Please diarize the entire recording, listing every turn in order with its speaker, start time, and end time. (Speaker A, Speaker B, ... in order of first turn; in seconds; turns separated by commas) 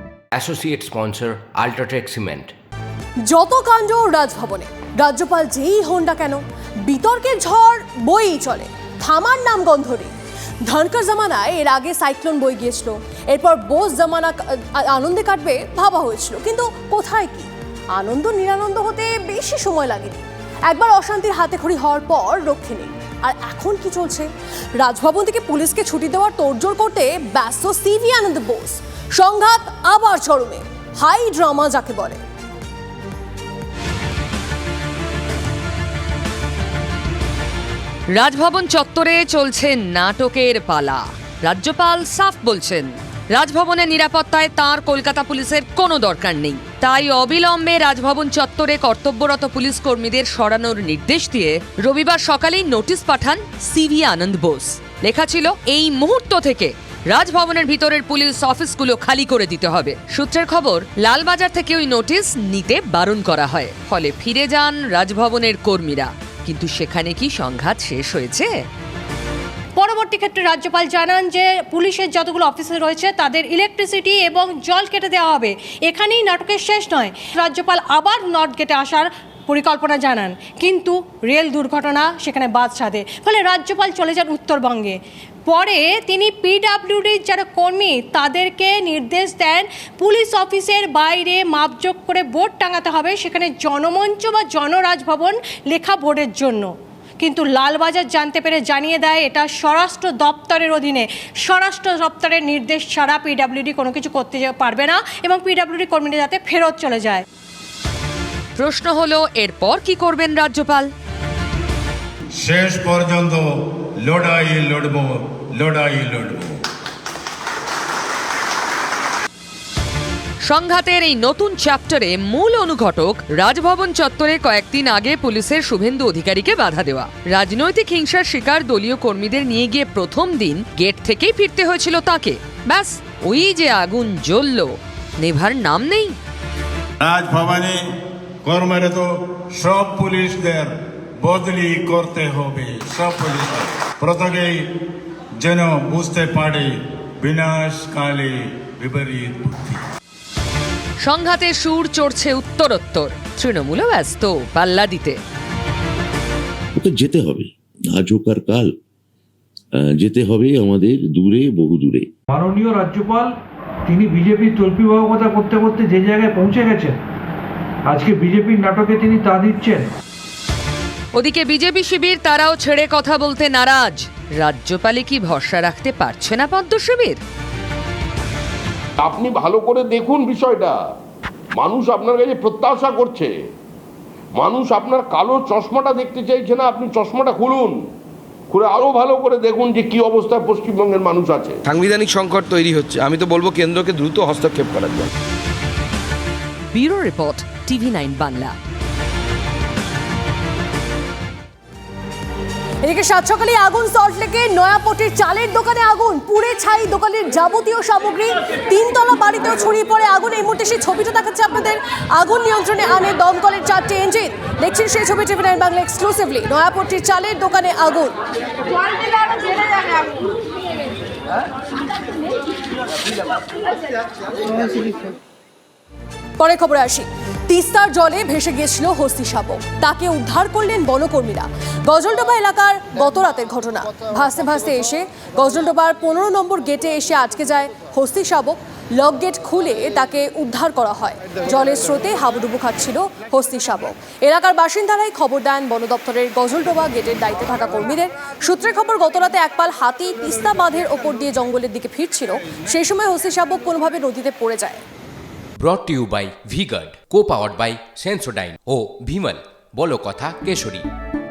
Speaker A: 0.3-2.5, Speaker B: 3.3-10.1, Speaker B: 10.7-24.3, Speaker B: 24.8-32.2, Speaker C: 38.1-68.5, Speaker D: 69.8-107.2, Speaker C: 108.6-110.9, Speaker E: 112.4-113.5, Speaker E: 114.0-116.6, Speaker C: 120.4-136.2, Speaker E: 137.0-137.8, Speaker E: 138.4-144.6, Speaker E: 145.4-149.8, Speaker C: 151.0-155.2, Speaker F: 156.8-158.8, Speaker F: 159.7-162.1, Speaker G: 162.3-163.3, Speaker G: 163.9-167.0, Speaker G: 167.9-169.9, Speaker C: 171.1-177.2, Speaker H: 179.0-180.8, Speaker H: 181.6-183.3, Speaker H: 184.4-187.8, Speaker H: 188.5-191.6, Speaker I: 191.6-195.1, Speaker C: 196.7-198.6, Speaker B: 202.8-218.2, Speaker B: 226.4-254.8, Speaker A: 255.6-260.9